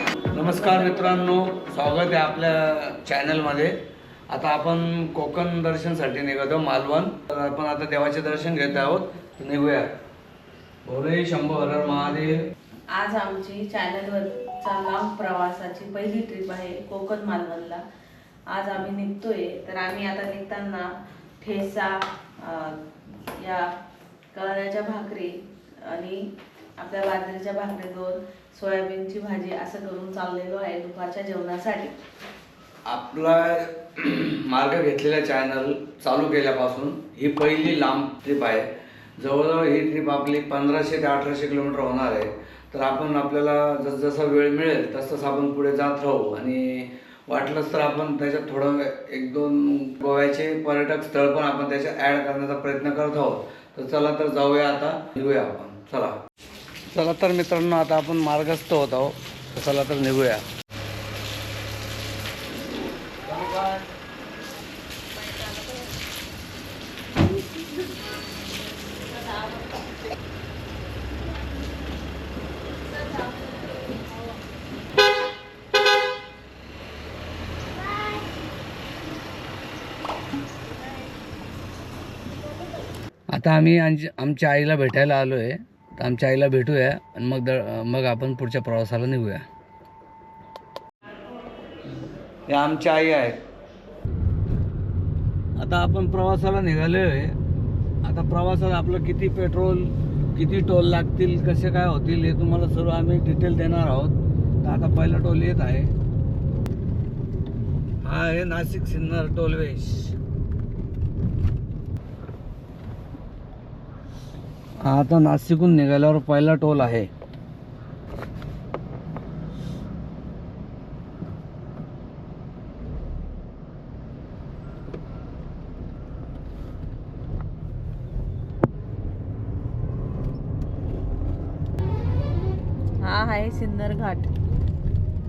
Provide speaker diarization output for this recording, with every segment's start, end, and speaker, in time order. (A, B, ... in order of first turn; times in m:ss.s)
0:00.3-0:03.8 A
0:04.3-0:09.9 A
0:10.8-0:12.5 A
0:12.9-0:17.8 B
0:18.5-0:23.8 B
0:24.3-0:31.9 B
0:32.9-0:56.2 A
0:56.9-1:00.4 A
1:03.3-1:03.9 A
1:05.3-1:05.8 B
1:23.3-1:29.4 A
1:32.5-1:33.4 A
1:35.6-1:37.4 A
1:38.0-1:45.9 A
1:48.0-1:50.2 A
1:54.8-1:57.1 A
2:13.0-2:14.3 B